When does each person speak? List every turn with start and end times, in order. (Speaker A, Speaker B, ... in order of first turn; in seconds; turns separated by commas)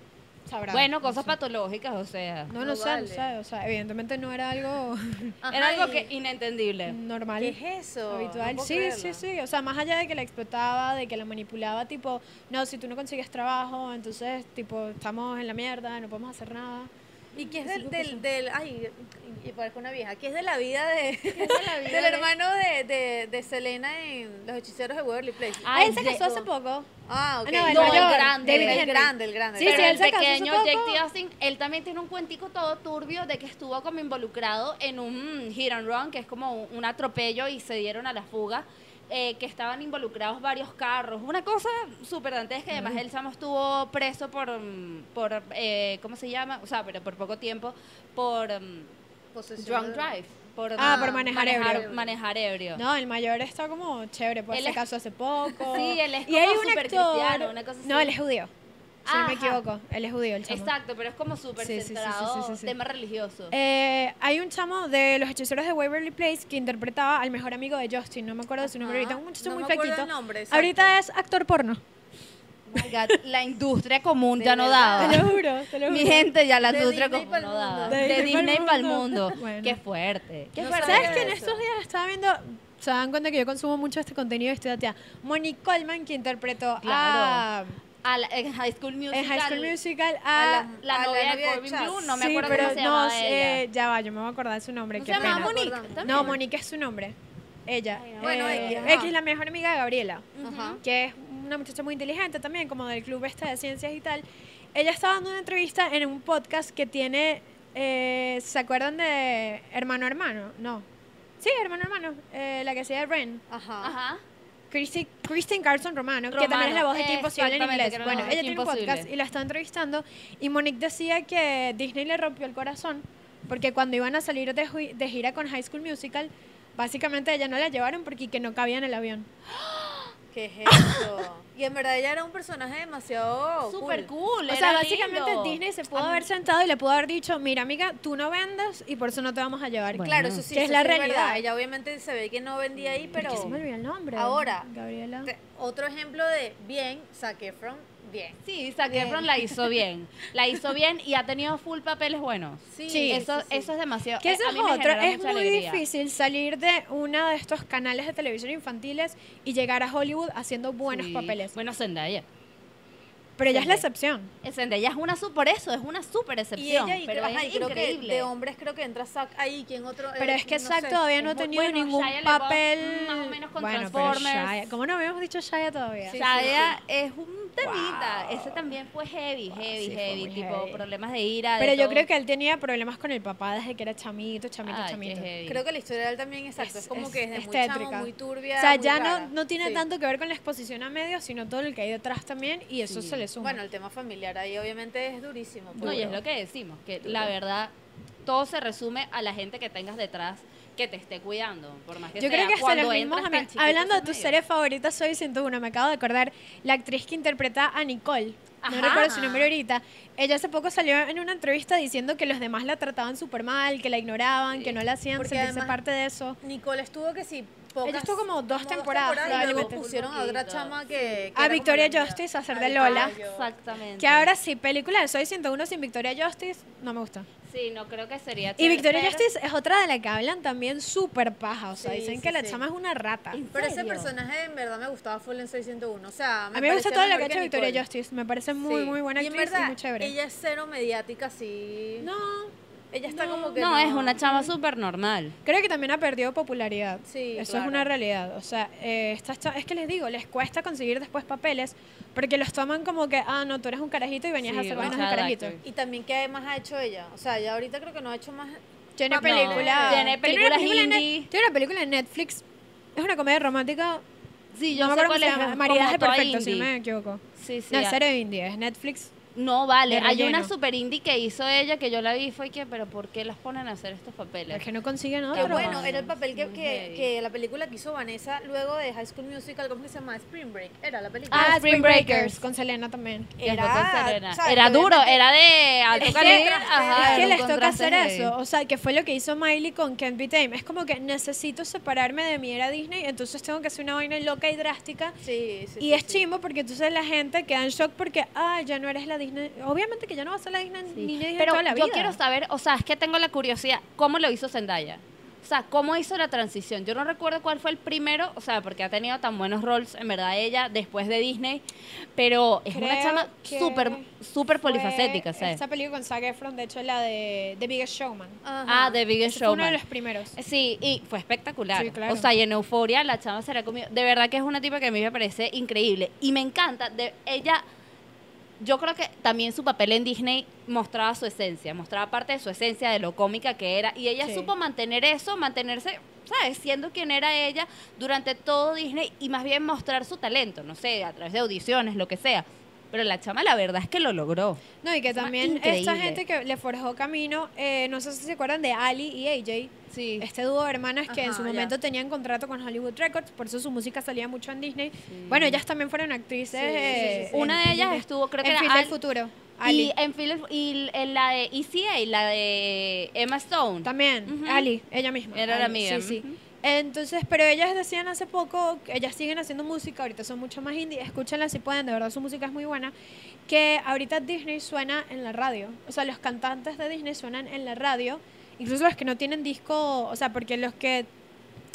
Speaker A: 0.5-1.4, Speaker B: 0.7-2.5, Speaker A: 2.5-5.4, Speaker C: 2.6-3.3, Speaker C: 5.4-6.1, Speaker B: 5.5-7.0, Speaker A: 6.9-7.6, Speaker C: 7.4-9.2, Speaker A: 8.1-16.9, Speaker C: 17.3-25.9, Speaker A: 17.5-18.1, Speaker B: 21.4-22.3, Speaker B: 25.6-26.5, Speaker A: 25.7-26.9, Speaker C: 27.1-30.1, Speaker A: 27.4-31.0, Speaker B: 27.7-29.0, Speaker B: 29.6-48.9, Speaker A: 42.7-43.0, Speaker C: 49.3-50.1, Speaker B: 49.6-52.8, Speaker A: 50.8-51.8, Speaker C: 50.8-52.1, Speaker A: 52.7-58.5, Speaker B: 54.5-54.8, Speaker B: 55.6-58.1, Speaker A: 59.0-60.7, Speaker B: 59.0-59.6, Speaker B: 60.5-63.5, Speaker A: 61.6-62.7, Speaker A: 63.5-71.8, Speaker C: 68.7-71.0, Speaker B: 72.7-81.3, Speaker C: 74.4-75.3, Speaker A: 75.0-76.3, Speaker C: 76.6-78.6, Speaker A: 77.9-79.8, Speaker C: 80.5-81.6, Speaker A: 80.6-87.8, Speaker B: 86.8-87.5, Speaker B: 88.0-89.8, Speaker A: 89.1-90.7, Speaker B: 90.3-93.6, Speaker C: 90.6-92.8, Speaker A: 92.2-110.8, Speaker C: 95.0-96.4, Speaker B: 95.0-96.4, Speaker B: 97.9-99.0, Speaker C: 98.2-99.1, Speaker B: 100.4-100.8, Speaker C: 100.4-100.8, Speaker A: 111.4-113.4, Speaker C: 113.5-113.9, Speaker B: 113.8-114.2, Speaker A: 114.7-129.3, Speaker B: 116.3-119.1, Speaker B: 129.6-130.1, Speaker C: 130.3-134.1, Speaker B: 133.7-136.3, Speaker A: 134.5-141.4, Speaker B: 139.9-140.4, Speaker C: 140.0-143.5, Speaker B: 142.8-143.6, Speaker A: 143.2-145.3, Speaker C: 144.1-144.7, Speaker C: 145.2-149.8, Speaker B: 148.4-155.8, Speaker C: 152.7-153.7, Speaker A: 152.9-153.2, Speaker A: 154.2-161.5, Speaker B: 160.8-162.2, Speaker A: 163.4-164.3, Speaker B: 163.4-163.8, Speaker B: 164.4-168.3, Speaker C: 166.6-171.4, Speaker A: 170.2-176.7, Speaker B: 171.2-174.7, Speaker C: 176.1-176.8, Speaker B: 176.1-182.1, Speaker A: 177.6-178.7, Speaker A: 179.5-180.8, Speaker A: 181.6-185.3, Speaker B: 184.6-185.6, Speaker C: 185.4-189.8, Speaker A: 186.6-193.6, Speaker B: 192.8-193.2, Speaker C: 193.4-196.2, Speaker B: 195.8-197.7, Speaker B: 198.2-204.3, Speaker A: 202.2-216.4, Speaker B: 208.6-209.3, Speaker C: 208.8-209.5, Speaker B: 214.5-214.8, Speaker C: 215.2-215.8, Speaker C: 216.4-223.5, Speaker A: 217.8-219.8, Speaker B: 219.2-220.8, Speaker A: 221.3-223.1, Speaker B: 222.8-224.3, Speaker A: 224.0-227.3, Speaker B: 227.5-229.2, Speaker A: 228.6-233.4, Speaker C: 231.7-232.6, Speaker B: 233.3-234.1, Speaker C: 233.5-237.8, Speaker A: 236.5-240.1, Speaker C: 238.6-242.1, Speaker A: 242.0-242.6, Speaker C: 242.9-244.2, Speaker B: 243.1-245.4, Speaker A: 244.2-244.5, Speaker A: 245.4-255.6, Speaker C: 247.1-247.9, Speaker B: 254.4-255.6, Speaker C: 255.6-260.1, Speaker A: 258.9-264.0, Speaker B: 259.2-261.3, Speaker B: 264.5-266.7, Speaker A: 264.7-269.1, Speaker B: 267.4-268.0, Speaker B: 269.4-274.6, Speaker A: 269.9-270.5, Speaker A: 274.5-275.8, Speaker B: 275.3-277.1, Speaker C: 275.3-281.5, Speaker B: 281.3-282.4, Speaker A: 281.3-283.3, Speaker C: 283.4-285.2, Speaker B: 283.4-288.3, Speaker C: 285.9-287.3, Speaker A: 286.0-295.2, Speaker C: 295.2-296.2, Speaker A: 295.8-302.2, Speaker B: 300.9-315.6, Speaker A: 312.7-314.0, Speaker A: 314.6-318.4, Speaker C: 318.4-319.0, Speaker B: 318.7-319.8, Speaker A: 319.2-320.4, Speaker B: 320.4-327.6, Speaker A: 321.7-322.3, Speaker B: 328.6-346.2, Speaker A: 334.2-334.5, Speaker A: 344.8-359.9, Speaker B: 349.9-350.3, Speaker C: 351.1-351.7, Speaker B: 355.1-355.6, Speaker C: 356.5-357.6, Speaker B: 356.9-358.9, Speaker B: 359.6-364.7, Speaker A: 363.8-372.9, Speaker B: 365.3-366.4, Speaker A: 373.4-381.1